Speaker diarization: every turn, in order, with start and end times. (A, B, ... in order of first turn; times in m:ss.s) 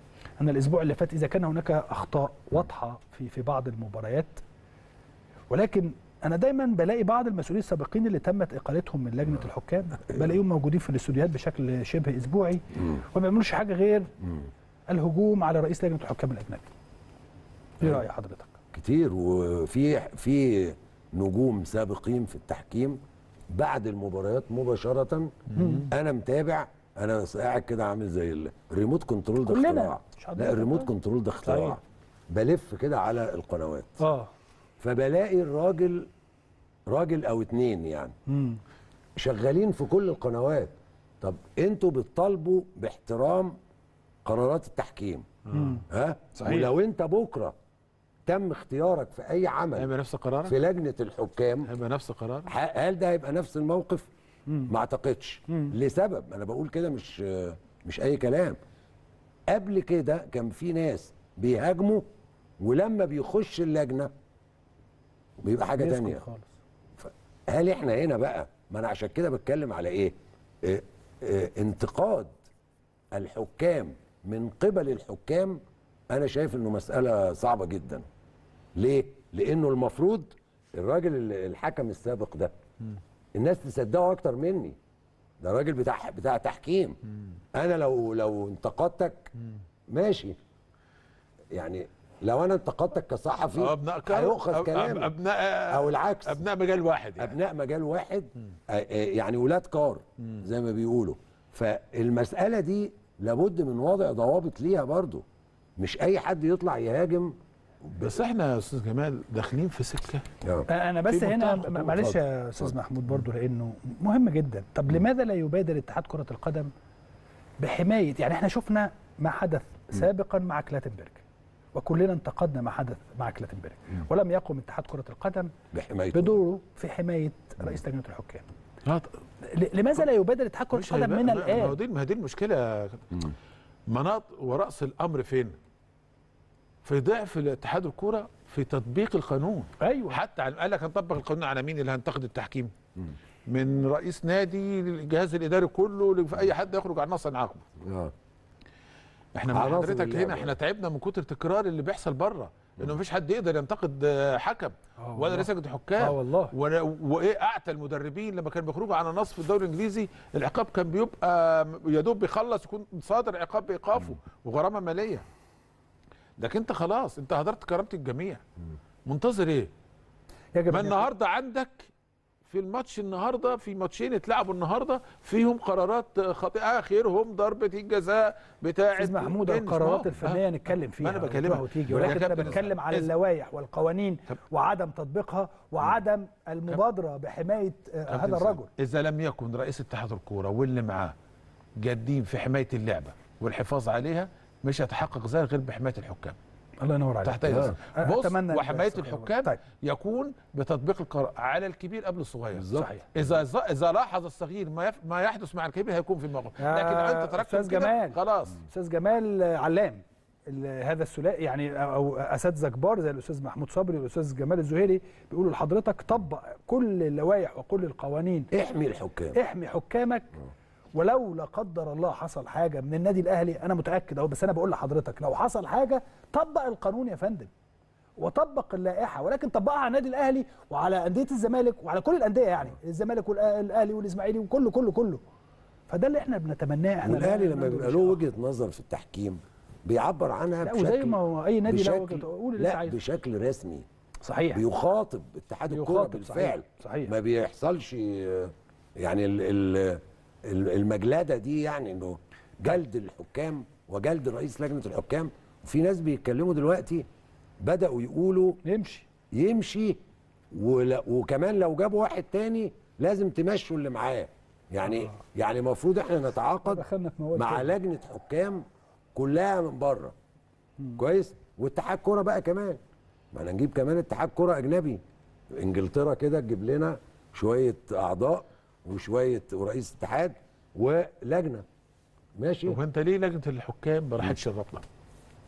0:00.4-0:04.4 A
0:05.5-0:14.1 A
0:14.9-0:16.7 A
0:17.8-0:18.5 A
0:18.7-0:23.0 B
0:23.5-0:31.8 B
0:25.6-0:25.9 A
0:29.4-0:30.9 A
0:31.5-0:31.8 A
0:32.3-0:34.0 B
0:34.0-0:34.3 A
0:34.8-0:36.1 B
0:36.9-0:38.1 B
0:38.3-0:38.6 A
0:39.2-0:43.6 B
0:44.2-0:45.3 B
0:45.5-0:45.8 A
0:45.9-0:47.6 B
0:46.4-0:46.7 A
0:48.3-0:49.9 B
0:49.8-0:50.6 C
0:50.4-0:51.7 B
0:51.7-0:52.5 C
0:52.5-0:54.1 B
0:54.7-0:58.6 B
0:59.5-1:02.1 B
1:02.6-1:04.1 B
1:05.4-1:06.2 B
1:05.8-1:06.5 A
1:07.0-1:12.3 B
1:13.1-1:15.6 B
1:16.1-1:18.0 B
1:18.8-1:22.5 B
1:23.4-1:24.8 B
1:25.4-1:27.0 B
1:27.6-1:29.3 B
1:29.9-1:30.4 B
1:31.5-1:35.1 B
1:33.6-1:37.4 C
1:35.7-1:36.4 B
1:37.2-1:45.2 B
1:45.8-1:47.3 B
1:47.8-1:48.1 B
1:48.0-1:50.3 C
1:50.4-1:50.7 B
1:50.7-1:56.7 A
1:51.1-1:52.2 C
1:57.6-2:01.2 A
2:01.7-2:05.5 A
2:05.7-2:06.4 B
2:06.1-2:08.5 A
2:08.8-2:09.2 C
2:09.4-2:11.8 A
2:10.7-2:13.3 C
2:13.9-2:15.6 C
2:16.8-2:22.7 C
2:19.8-2:20.2 A
2:23.5-2:27.6 C
2:27.8-2:28.1 B
2:29.4-2:45.2 C
2:29.5-2:30.6 B
2:35.0-2:35.5 A
2:36.0-2:36.5 A
2:46.4-2:48.4 C
2:49.1-2:49.7 C
2:50.6-2:51.1 A
2:50.7-2:51.9 C
2:52.4-3:03.1 C
2:59.0-3:08.7 A
3:08.1-3:11.2 C
3:11.8-3:16.4 C
3:16.8-3:19.6 A
3:17.2-3:28.6 C
3:17.5-3:17.8 B
3:22.5-3:22.9 B
3:22.8-3:23.1 A
3:26.6-3:38.5 A
3:38.5-3:39.4 B
3:39.4-3:40.4 A
3:41.0-3:47.5 A
3:48.2-3:55.2 A
3:55.9-3:58.2 A
3:57.0-4:03.9 B
4:00.6-4:03.0 A
4:04.2-4:04.6 A
4:04.5-4:17.1 B
4:05.7-4:07.1 A
4:17.6-4:18.6 B
4:18.6-4:19.1 A
4:19.3-4:20.0 B
4:20.5-4:26.8 B
4:26.7-4:27.7 A
4:27.4-4:28.6 B
4:29.2-4:30.1 B
4:31.0-4:32.8 B
4:33.3-4:35.0 B
4:35.5-4:41.6 B
4:42.4-4:42.8 B
4:42.7-4:44.8 C